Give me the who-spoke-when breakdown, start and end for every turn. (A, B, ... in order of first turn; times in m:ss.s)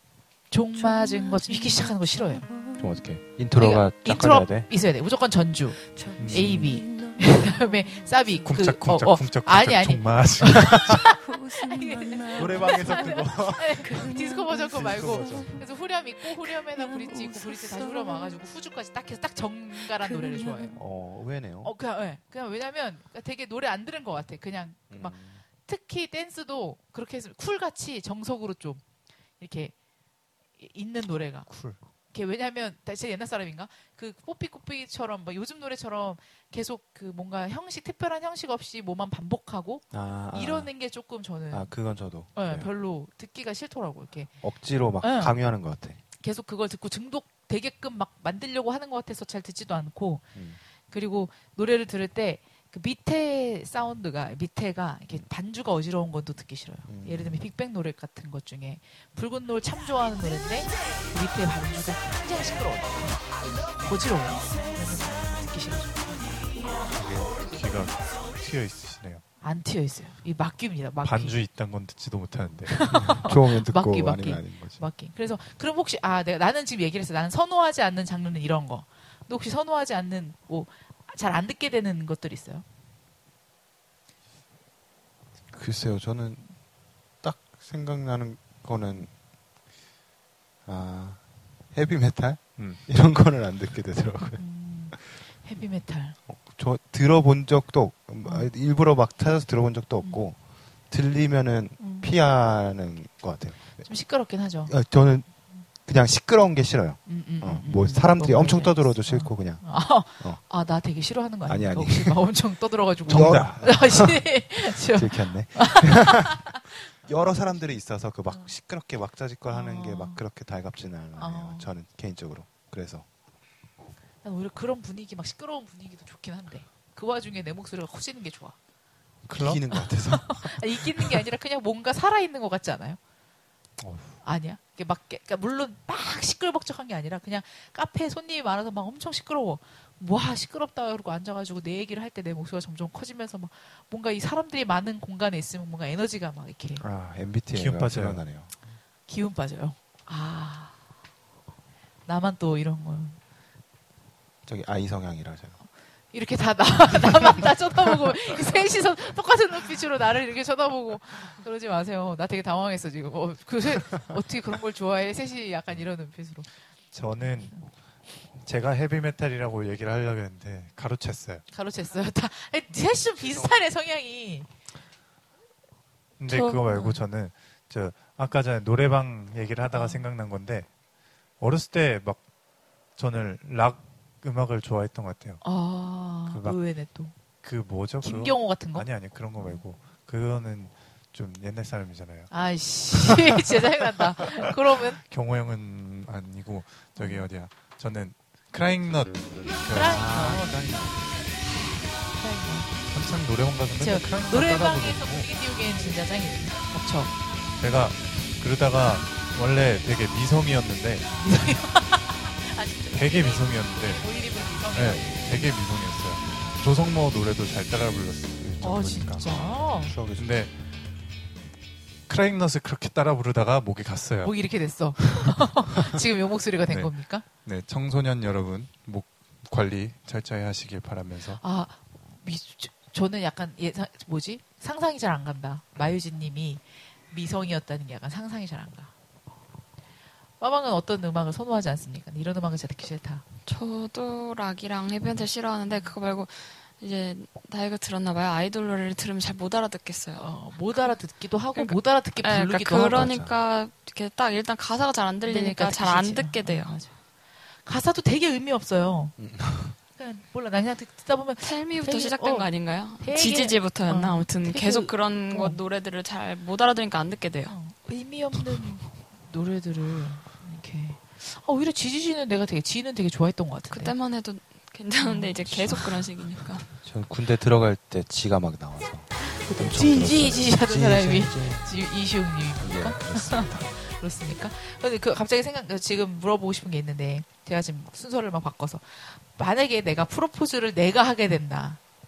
0:00.5-0:02.5 A
0:02.8-0:04.7 B
0:03.6-0:20.8 A
0:06.2-0:06.6 C
0:06.2-0:06.7 B
0:08.4-0:11.1 C
0:12.3-0:15.6 B
0:20.7-0:21.7 B
0:21.6-0:28.8 A
0:24.9-0:25.4 B
0:29.4-0:29.7 A
0:30.6-0:31.5 A
0:31.5-0:31.8 C
0:32.1-0:41.7 A
0:39.9-0:40.7 B
0:41.5-0:42.7 B
0:42.4-0:44.3 A
0:44.4-0:46.0 B
0:45.0-0:45.3 A
0:46.2-0:50.3 A
0:50.9-1:03.2 A
0:56.9-0:57.4 B
1:03.8-1:06.5 A
1:07.0-1:09.2 C
1:09.4-1:11.4 A
1:11.0-1:13.0 C
1:12.7-1:22.6 A
1:12.9-1:14.8 B
1:25.5-1:26.5 B
1:27.2-1:29.1 B
1:30.7-1:31.2 B
1:31.7-1:34.4 B
1:34.4-1:36.2 A
1:36.3-1:40.4 B
1:40.9-1:43.9 B
1:41.8-1:42.1 A
1:43.8-1:44.7 A
1:44.7-1:45.3 B
1:45.8-1:49.6 B
1:47.1-1:56.9 A
1:51.5-1:52.2 B
1:53.1-2:03.1 B
1:53.1-1:53.5 C
1:59.5-2:00.2 A
2:01.2-2:01.7 A
2:04.2-2:08.6 A
2:09.3-2:11.2 B
2:09.3-2:09.6 C
2:09.7-2:13.0 A
2:13.8-2:14.2 C
2:14.2-2:26.8 A
2:26.8-2:28.5 B
2:27.5-2:28.2 C
2:29.1-2:30.7 A
2:32.1-2:33.2 A
2:34.5-2:35.6 B
2:36.1-2:46.5 A
2:46.9-2:47.6 C
2:47.2-2:47.6 A
2:48.4-2:51.4 C
2:51.5-2:54.5 A
2:56.2-3:00.7 C
2:56.3-2:56.6 D
2:56.7-2:57.0 A
2:59.7-3:00.1 A
3:01.4-3:02.2 C
3:03.0-3:05.4 C
3:05.4-3:07.1 A
3:06.3-3:06.6 C
3:07.4-3:12.3 C
3:08.0-3:08.9 A
3:12.3-3:15.0 A
3:15.0-3:20.4 C
3:17.0-3:17.3 A
3:19.7-3:20.5 A
3:19.7-3:21.4 B
3:22.1-3:22.7 A
3:22.9-3:25.3 C
3:23.8-3:27.1 A
3:27.6-3:31.1 C
3:31.2-3:35.5 A
3:32.9-3:34.1 C
3:34.7-3:39.2 C
3:38.4-3:40.3 B
3:38.6-3:40.0 A
3:40.2-3:40.5 C
3:42.1-3:44.4 C
3:44.2-3:47.2 A
3:46.7-3:51.4 C
3:51.4-3:58.9 A
4:00.4-4:03.2 A
4:03.5-4:10.9 D
4:10.2-4:13.1 A
4:11.6-4:16.8 D
4:12.9-4:13.3 B
4:15.3-4:16.9 A
4:17.6-4:19.2 A
4:19.2-4:19.8 B
4:20.0-4:22.5 A
4:21.4-4:27.5 D
4:23.0-4:25.6 A
4:27.5-4:33.9 A
4:33.7-4:36.7 D
4:35.0-4:35.8 A
4:36.8-4:41.7 B
4:39.4-4:51.8 A
4:42.6-4:43.7 B